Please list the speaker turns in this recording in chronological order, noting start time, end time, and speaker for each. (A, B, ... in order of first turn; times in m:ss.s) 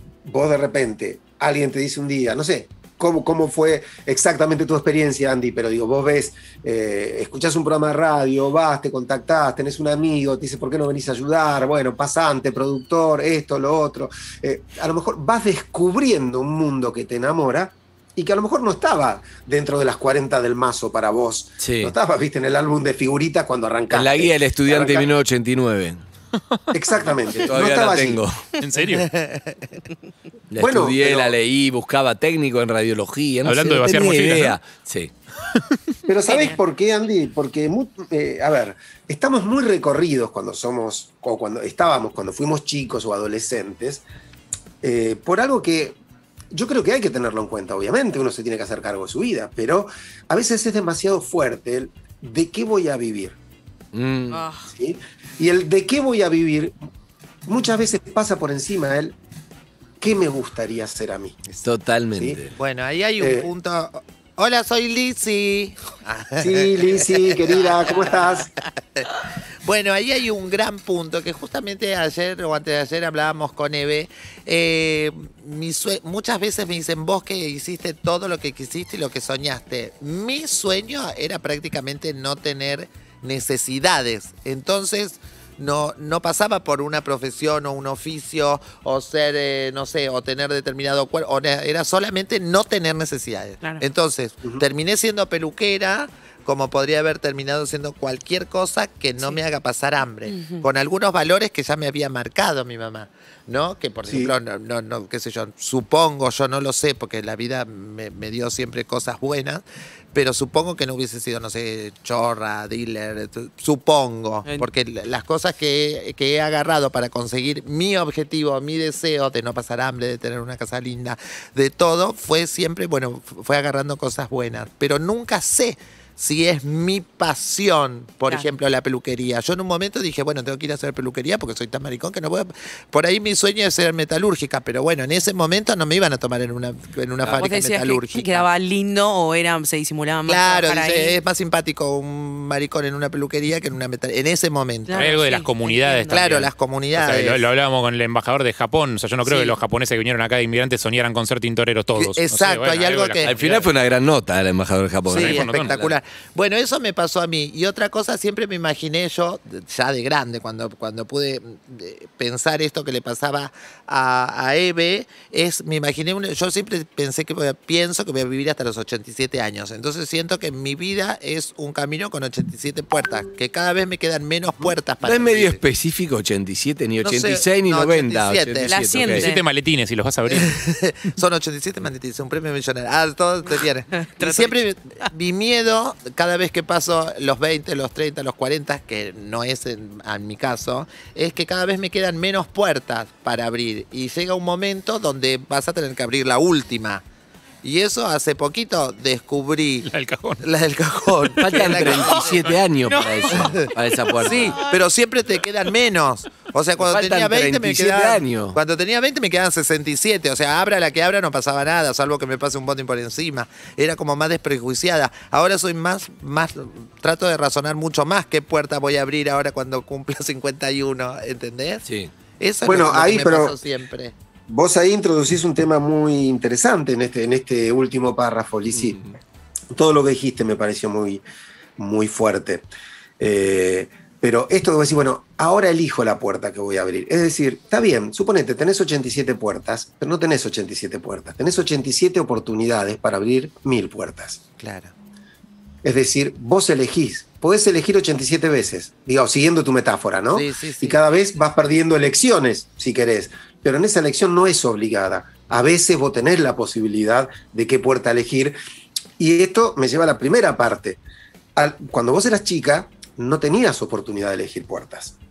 0:00.2-0:25.1 A
0:21.6-0:21.9 B
0:23.9-0:26.0 B
0:26.7-0:28.2 A
0:27.4-0:28.4 B
0:28.6-0:29.2 C
0:29.0-0:29.6 D
0:30.5-0:35.1 B
0:30.6-0:31.4 A
0:33.4-0:34.6 C
0:36.1-0:44.0 A
0:36.3-0:36.6 E
0:44.8-0:46.0 A
0:46.5-0:53.4 A
0:53.9-0:54.4 B
0:54.3-0:54.7 E
0:54.7-0:56.7 A
0:57.4-0:59.2 A
1:00.0-1:01.4 A
1:01.5-1:02.5 B
1:02.1-1:02.4 A
1:02.6-1:09.1 D
1:03.2-1:03.5 A
1:06.4-1:08.5 A
1:09.6-2:18.5 D
1:40.3-1:40.6 E
1:44.0-1:44.3 A
2:08.3-2:08.5 E
2:17.2-2:17.5 B
2:17.4-2:21.2 E
2:20.3-2:25.1 D
2:24.9-2:26.2 E
2:25.0-2:33.7 C
2:26.1-2:27.5 D
2:29.2-2:29.6 D
2:32.0-2:33.3 D
2:33.2-2:36.0 B
2:35.0-2:55.6 D
2:35.1-2:35.7 C
2:55.0-2:59.3 B
2:57.0-2:59.3 D
2:58.6-2:59.4 E
2:59.2-3:00.6 C
3:00.3-3:17.0 D
3:04.0-3:04.6 E
3:17.6-3:19.9 D
3:19.9-3:20.4 C
3:20.4-3:22.3 D
3:21.4-3:24.6 B
3:21.5-3:24.8 E
3:23.3-3:23.7 D
3:24.2-3:41.8 D
3:26.8-3:28.6 B
3:41.8-3:42.1 B
3:42.4-3:44.1 D
3:42.6-3:43.6 A
3:44.5-3:49.0 A
3:48.7-3:49.1 B
3:49.7-3:51.2 A
3:51.8-3:52.7 A
3:53.2-4:04.4 A
4:04.6-4:04.9 D
4:05.8-4:18.6 A
4:10.3-4:11.0 D
4:19.2-4:21.0 A
4:21.6-4:25.1 A